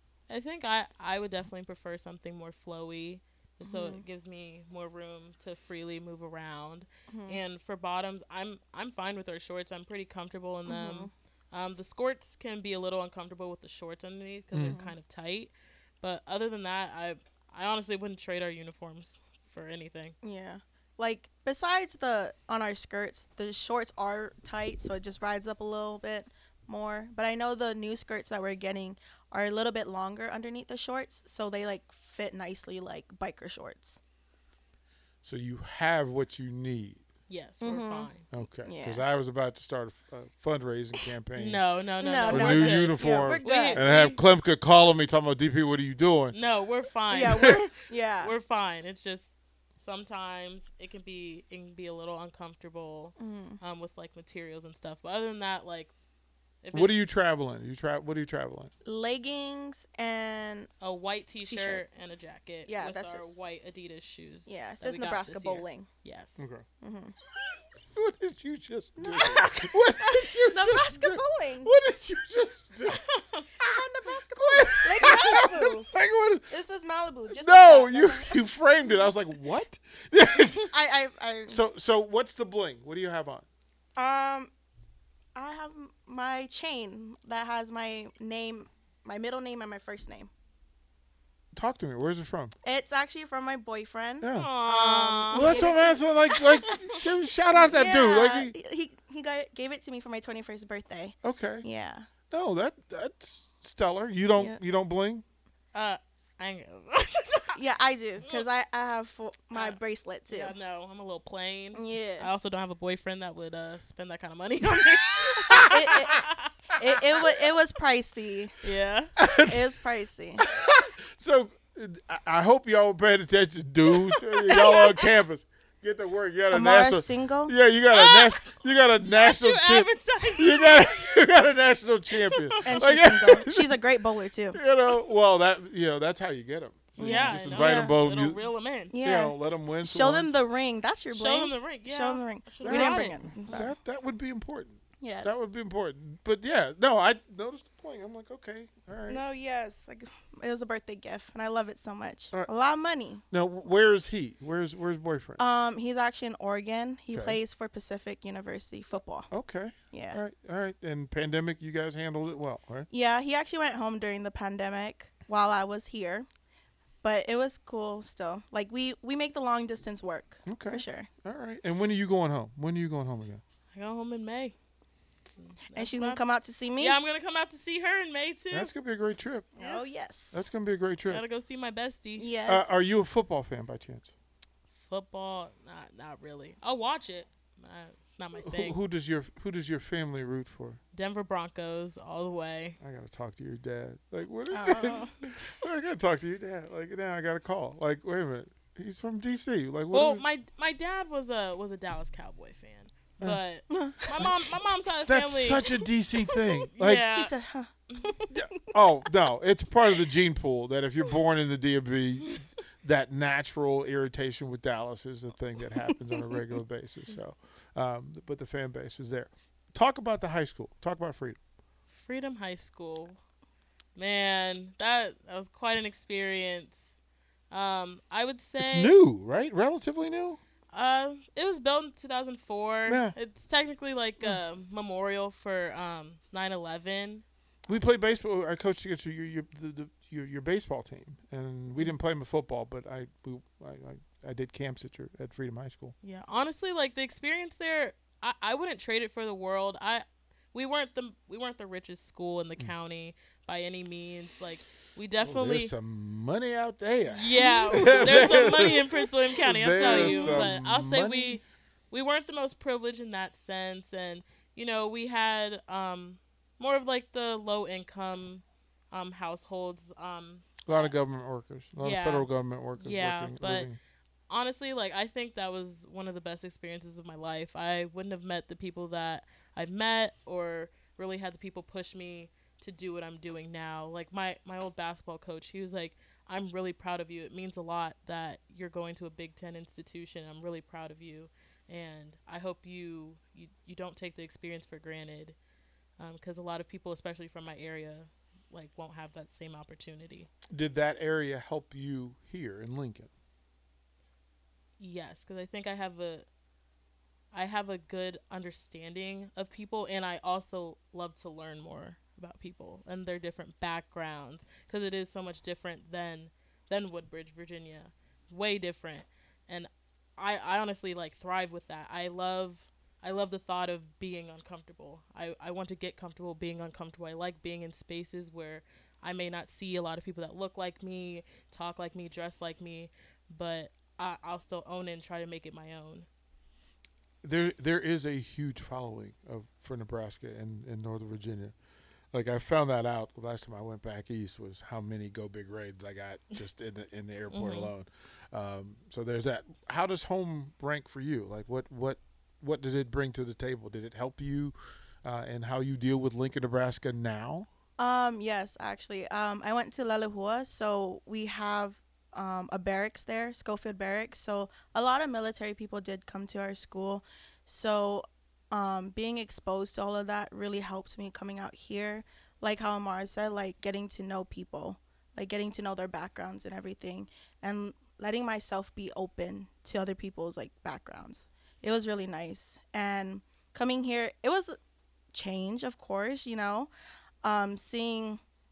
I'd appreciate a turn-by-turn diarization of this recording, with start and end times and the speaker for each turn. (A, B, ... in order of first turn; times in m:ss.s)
0:00.3-0:20.2 A
0:03.6-0:04.0 B
0:07.1-0:07.4 B
0:10.7-0:11.1 B
0:14.5-0:14.8 C
0:14.6-0:15.0 B
0:20.2-0:34.0 B
0:35.2-0:37.0 C
0:37.3-0:38.3 A
0:37.6-0:39.0 B
0:38.3-0:41.6 C
0:41.4-0:44.2 A
0:42.0-0:43.8 B
0:42.3-0:46.4 C
0:46.3-0:55.9 A
0:47.1-0:48.3 B
0:47.2-0:47.6 C
0:53.2-0:53.6 B
0:56.6-0:57.0 A
0:56.7-0:58.7 C
0:58.8-1:00.7 B
1:00.8-1:06.5 A
1:01.4-1:01.8 B
1:02.7-1:03.5 B
1:04.5-1:05.9 B
1:06.4-1:06.7 C
1:06.8-1:07.2 B
1:07.9-1:13.1 C
1:09.0-1:09.7 B
1:10.4-1:11.7 B
1:13.0-1:13.4 A
1:13.6-1:15.9 B
1:14.4-1:16.5 C
1:16.5-1:18.4 B
1:17.3-1:20.7 C
1:20.7-1:21.6 B
1:21.5-1:23.5 C
1:24.0-1:24.5 B
1:25.4-1:30.3 B
1:31.5-1:32.5 C
1:32.6-1:36.1 B
1:34.2-1:34.5 C
1:34.3-1:35.7 A
1:35.3-1:38.6 C
1:36.3-1:37.0 A
1:37.5-1:42.1 B
1:41.2-1:41.7 C
1:42.3-1:45.2 C
1:44.4-1:44.6 B
1:45.7-1:47.6 A
1:47.5-1:50.6 B
1:49.5-1:56.5 A
1:51.7-1:52.3 B
1:55.5-1:56.2 B
1:56.8-1:58.5 B
1:58.6-1:59.1 A
1:59.2-1:59.6 C
1:59.5-2:00.4 B
2:00.4-2:13.7 C
2:04.5-2:05.1 A
2:06.5-2:07.5 B
2:07.9-2:11.2 A
2:12.3-2:12.9 A
2:12.6-2:14.6 B
2:14.5-2:18.4 C
2:17.0-2:18.9 A
2:17.0-2:17.9 B
2:18.9-2:23.8 B
2:19.0-2:20.4 C
2:21.1-2:23.6 A
2:22.6-2:29.2 C
2:25.0-2:25.5 B
2:29.1-2:33.2 B
2:33.3-2:35.4 C
2:35.4-2:39.3 B
2:37.1-2:37.4 C
2:39.3-2:42.9 C
2:39.9-2:40.2 B
2:42.9-2:46.3 B
2:47.0-2:51.1 B
2:50.4-2:53.4 C
2:53.7-2:54.6 A
2:55.4-2:56.2 A
2:55.7-2:57.0 B
2:56.8-2:58.7 A
2:58.5-2:59.6 C
2:59.6-3:00.4 B
3:00.3-3:01.2 C
3:01.1-3:02.3 A
3:02.2-3:02.8 B
3:02.5-3:04.1 C
3:04.8-3:08.8 A
3:08.4-3:10.8 C
3:10.9-3:12.8 A
3:12.8-3:20.2 C
3:14.5-3:15.2 B
3:19.9-3:25.7 A
3:23.7-3:24.3 B
3:25.0-3:27.0 C
3:26.3-3:28.7 B
3:26.8-3:27.3 A
3:28.3-3:41.4 C
3:41.9-3:43.2 A
3:44.0-3:47.0 A
3:47.5-3:49.0 A
3:48.6-3:50.4 C
3:50.7-3:57.2 A
3:52.9-3:53.2 C
3:57.7-4:06.0 C
4:06.0-4:15.7 A
4:15.2-4:18.8 C
4:17.1-4:30.9 A
4:17.4-4:18.5 B
4:19.4-4:21.4 C
4:19.8-4:20.5 B
4:30.7-4:33.8 C
4:31.8-4:33.7 A
4:34.3-4:55.4 A
4:56.0-5:00.3 A
5:00.5-5:03.1 C
5:04.8-5:06.3 A
5:07.3-5:36.1 A
5:37.2-5:41.6 C
5:42.1-5:57.5 C
5:47.3-5:47.7 A
5:57.8-6:24.6 B
6:25.1-6:26.7 B
6:27.2-6:28.2 B